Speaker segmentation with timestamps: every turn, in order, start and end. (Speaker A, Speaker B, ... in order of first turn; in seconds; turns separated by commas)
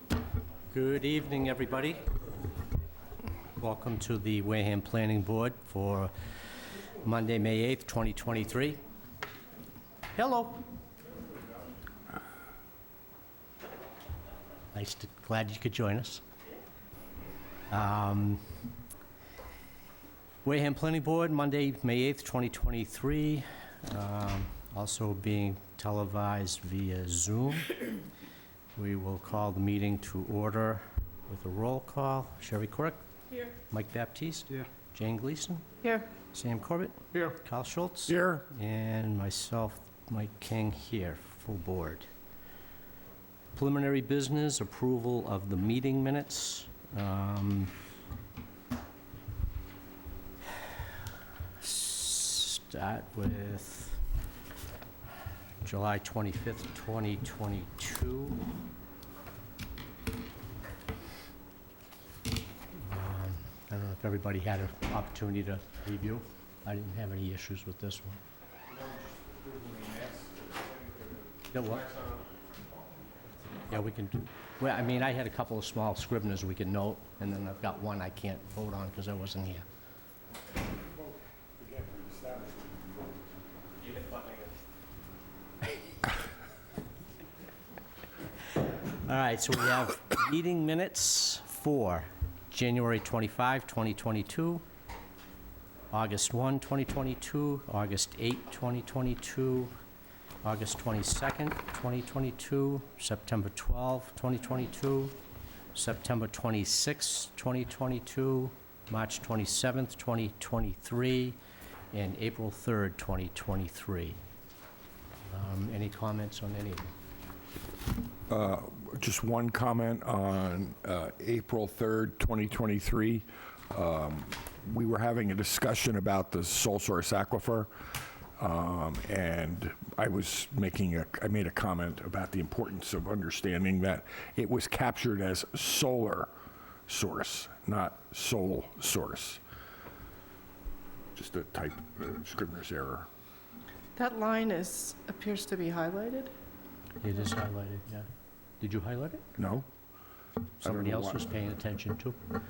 Speaker A: 0.7-2.1, Speaker A: 3.6-6.1, Speaker A: 6.8-8.8, Speaker A: 10.1-10.7, Speaker A: 14.7-16.2, Speaker A: 17.7-18.4, Speaker A: 20.4-27.8, Speaker A: 28.7-35.7, Speaker A: 36.3-42.1, Speaker B: 38.1-38.4, Speaker A: 43.5-47.7, Speaker A: 50.6-50.9, Speaker A: 51.6-54.0, Speaker A: 55.6-58.4, Speaker A: 62.7-68.2, Speaker B: 68.7-72.2, Speaker A: 71.5-71.9, Speaker A: 73.7-79.7, Speaker B: 81.6-83.2, Speaker A: 88.9-94.6, Speaker A: 95.9-99.7, Speaker A: 100.4-105.2, Speaker A: 105.7-111.4, Speaker A: 111.9-114.2, Speaker A: 115.2-116.9, Speaker B: 118.3-136.3, Speaker B: 136.9-139.4, Speaker B: 141.1-143.1, Speaker C: 143.9-146.3, Speaker A: 147.0-148.1, Speaker A: 148.6-149.2, Speaker B: 149.4-149.7, Speaker A: 150.6-152.2, Speaker B: 150.6-151.2